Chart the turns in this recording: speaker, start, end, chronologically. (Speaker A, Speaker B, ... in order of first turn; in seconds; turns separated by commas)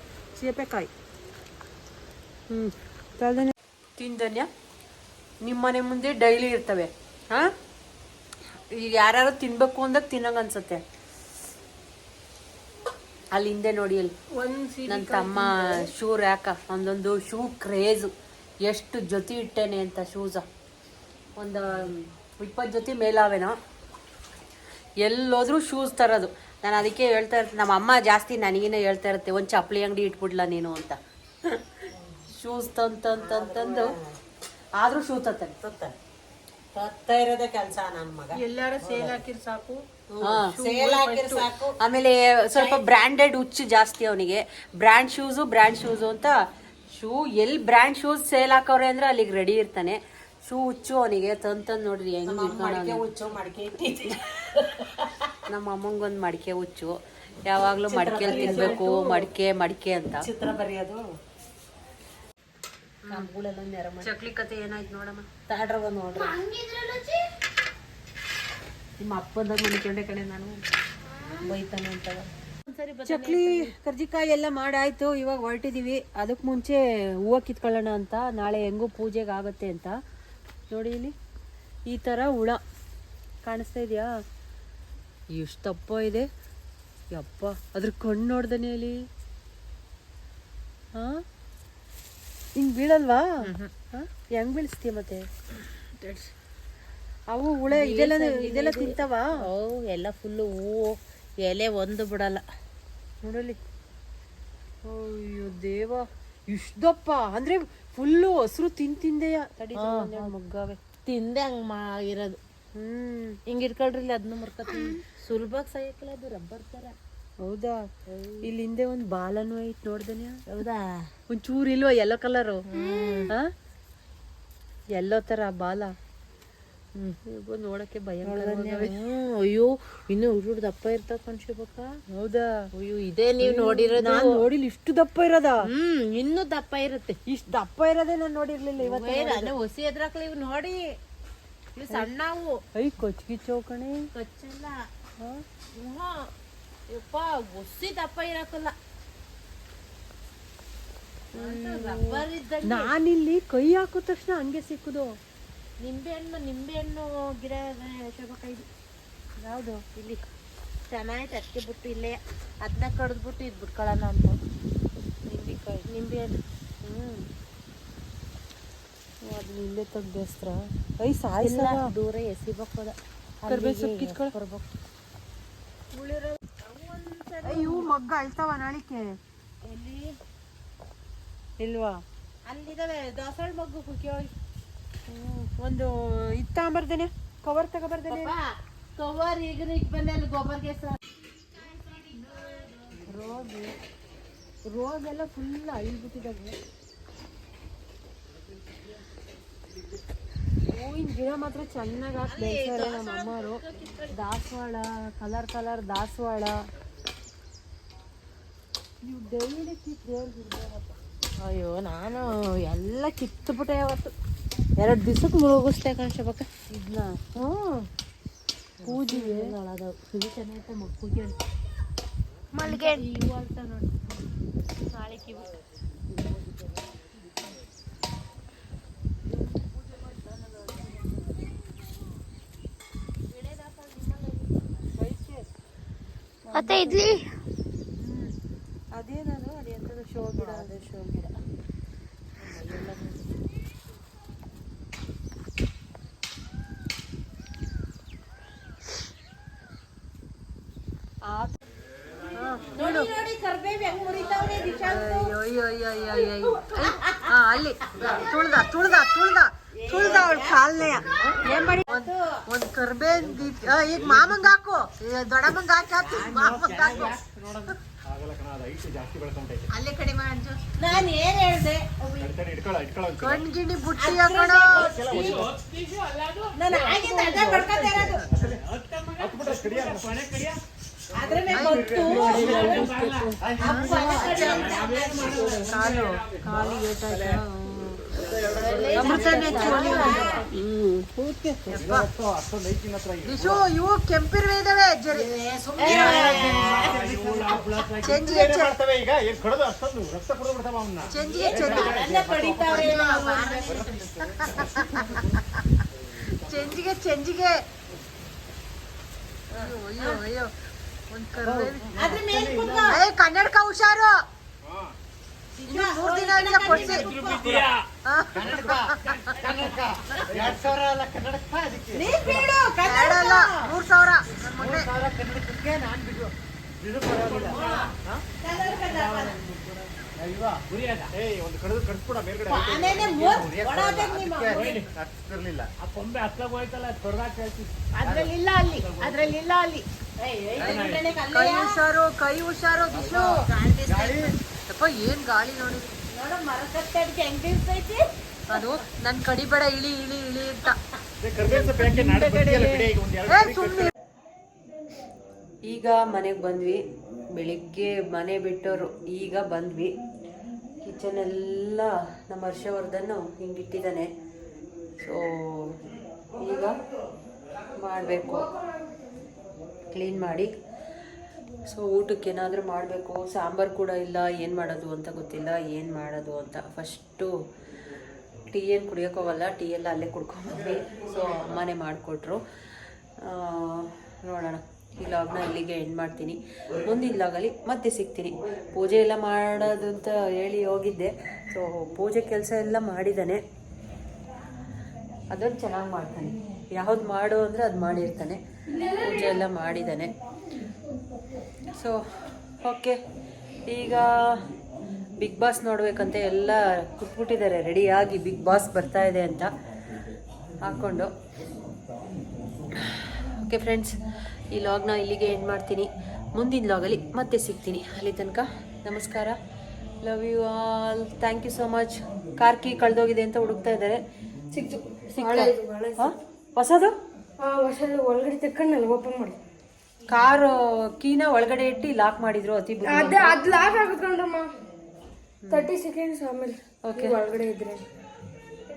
Speaker A: 0.4-0.9, Speaker A: 2.5-4.5, Speaker A: 5.4-7.5, Speaker A: 8.7-10.8, Speaker A: 13.3-14.1, Speaker B: 14.3-15.8, Speaker A: 14.8-18.1, Speaker A: 18.6-20.4, Speaker A: 21.4-23.6, Speaker A: 25.0-33.9, Speaker C: 33.2-34.1, Speaker A: 34.8-35.5, Speaker C: 35.6-35.9, Speaker C: 36.7-39.2, Speaker C: 40.1-41.7, Speaker A: 40.2-46.3, Speaker C: 42.5-42.8, Speaker A: 46.9-53.0, Speaker C: 52.2-55.3, Speaker A: 55.5-60.3, Speaker C: 57.9-59.3, Speaker C: 60.2-61.1, Speaker C: 63.1-64.1, Speaker A: 64.0-65.2, Speaker C: 65.5-66.4, Speaker D: 66.2-67.2, Speaker C: 69.0-70.6, Speaker D: 71.1-71.5, Speaker A: 71.5-72.2, Speaker C: 72.7-73.7, Speaker A: 73.0-80.0, Speaker A: 80.7-81.1, Speaker A: 81.9-82.6, Speaker A: 83.4-84.1, Speaker A: 85.3-86.3, Speaker A: 87.1-89.0, Speaker A: 90.9-91.2, Speaker A: 92.5-95.2, Speaker C: 93.4-93.7, Speaker B: 96.0-96.3, Speaker A: 97.3-99.4, Speaker C: 97.7-102.4, Speaker A: 103.2-103.6, Speaker A: 104.8-110.8, Speaker C: 109.8-110.3, Speaker C: 111.0-112.4, Speaker A: 112.7-113.4, Speaker C: 113.5-117.0, Speaker A: 117.4-117.8, Speaker C: 118.1-118.5, Speaker A: 118.4-120.4, Speaker C: 120.5-121.1, Speaker A: 121.3-122.6, Speaker C: 122.7-123.3, Speaker D: 122.8-123.2, Speaker A: 124.9-125.9, Speaker A: 127.2-128.9, Speaker C: 128.2-131.9, Speaker A: 132.1-132.5, Speaker C: 132.8-134.4, Speaker A: 133.4-135.7, Speaker C: 135.6-137.2, Speaker A: 137.3-139.5, Speaker C: 138.8-141.0, Speaker C: 141.8-142.6, Speaker A: 142.8-144.1, Speaker C: 144.1-144.9, Speaker C: 145.7-146.3, Speaker C: 146.9-148.7, Speaker A: 151.3-155.2, Speaker C: 151.3-152.9, Speaker C: 155.8-158.7, Speaker A: 159.4-159.8, Speaker C: 159.9-160.2, Speaker C: 160.9-164.4, Speaker A: 165.2-165.9, Speaker C: 165.8-166.4, Speaker A: 166.8-167.3, Speaker A: 169.2-171.9, Speaker C: 171.4-174.6, Speaker A: 173.5-174.3, Speaker C: 176.6-177.9, Speaker A: 177.4-179.2, Speaker C: 179.6-180.2, Speaker A: 181.6-182.0, Speaker C: 182.4-184.3, Speaker A: 185.1-188.3, Speaker C: 188.1-191.0, Speaker A: 193.0-193.7, Speaker A: 194.7-196.6, Speaker A: 200.7-206.6, Speaker C: 202.3-204.1, Speaker A: 209.0-210.9, Speaker C: 211.4-214.1, Speaker C: 214.8-216.5, Speaker A: 216.7-217.1, Speaker C: 218.8-221.4, Speaker A: 218.8-219.5, Speaker D: 222.5-223.1, Speaker C: 222.8-223.9, Speaker C: 224.9-225.5, Speaker A: 230.0-230.7, Speaker C: 233.3-234.6, Speaker A: 235.0-235.5, Speaker D: 236.5-237.3, Speaker A: 237.9-238.3, Speaker A: 238.9-241.3, Speaker C: 240.3-240.8, Speaker C: 242.4-243.2, Speaker A: 251.2-251.6, Speaker A: 252.3-253.1, Speaker C: 252.7-255.3, Speaker A: 254.8-266.6, Speaker C: 256.6-257.2, Speaker C: 259.8-262.3, Speaker C: 266.0-267.2, Speaker E: 266.1-269.7, Speaker C: 269.7-272.3, Speaker E: 272.2-273.4, Speaker A: 273.2-274.9, Speaker C: 274.0-275.4, Speaker E: 274.7-275.5, Speaker F: 275.2-276.7, Speaker C: 276.6-278.3, Speaker A: 277.0-277.6, Speaker E: 277.2-278.6, Speaker F: 278.4-280.6, Speaker E: 279.2-280.3, Speaker E: 281.1-284.7, Speaker C: 281.1-285.4, Speaker A: 281.5-284.4, Speaker F: 282.5-283.3, Speaker F: 284.3-286.3, Speaker A: 285.4-288.3, Speaker E: 286.5-287.4, Speaker E: 288.1-290.3, Speaker C: 288.5-291.0, Speaker A: 288.9-290.4, Speaker E: 291.6-293.6, Speaker A: 291.7-292.1, Speaker A: 293.2-295.3, Speaker C: 295.1-297.1, Speaker E: 295.8-305.4, Speaker A: 295.9-296.8, Speaker F: 296.9-298.2, Speaker A: 298.0-298.8, Speaker A: 301.1-302.0, Speaker C: 301.2-304.1, Speaker A: 302.6-303.5, Speaker A: 304.3-305.6, Speaker A: 306.2-307.6, Speaker E: 306.2-306.7, Speaker A: 309.5-310.5, Speaker C: 309.5-310.2, Speaker A: 311.1-312.1, Speaker E: 311.4-312.9, Speaker C: 311.9-313.0, Speaker A: 312.9-314.2, Speaker E: 314.6-314.9, Speaker C: 315.6-317.4, Speaker A: 315.7-317.4, Speaker F: 316.7-317.8, Speaker E: 317.3-317.7, Speaker A: 318.1-319.4, Speaker E: 318.3-322.6, Speaker C: 319.4-320.5, Speaker C: 321.9-323.7, Speaker A: 322.8-324.9, Speaker E: 324.5-328.2, Speaker F: 327.2-327.8, Speaker C: 327.3-329.4, Speaker F: 328.8-329.8, Speaker E: 330.1-335.7, Speaker F: 330.7-331.1, Speaker C: 332.4-334.8, Speaker F: 334.6-334.9, Speaker F: 335.8-337.7, Speaker C: 337.9-341.7, Speaker E: 338.0-339.4, Speaker F: 340.6-341.1, Speaker A: 340.6-343.4, Speaker E: 342.9-344.4, Speaker C: 343.0-344.4, Speaker A: 344.7-345.9, Speaker C: 346.1-348.6, Speaker A: 348.5-350.8, Speaker E: 351.2-353.9, Speaker C: 351.4-352.8, Speaker A: 353.3-353.9, Speaker A: 355.7-356.8, Speaker A: 357.3-359.9, Speaker A: 360.8-364.1, Speaker A: 365.0-365.8, Speaker A: 366.4-366.7, Speaker A: 367.7-368.5, Speaker A: 369.9-370.5, Speaker A: 371.7-377.3, Speaker A: 378.5-382.4, Speaker A: 383.2-393.4, Speaker A: 395.3-400.1, Speaker A: 401.7-402.0, Speaker A: 402.6-403.0, Speaker A: 403.7-404.3, Speaker A: 405.2-409.5, Speaker A: 410.6-411.1, Speaker A: 412.9-414.0, Speaker A: 414.5-419.4, Speaker A: 420.0-424.0, Speaker B: 424.5-426.1, Speaker A: 425.2-426.9, Speaker B: 427.4-429.4, Speaker A: 430.1-433.4, Speaker B: 432.9-434.5, Speaker A: 435.4-435.7, Speaker B: 435.5-437.8, Speaker A: 436.8-437.2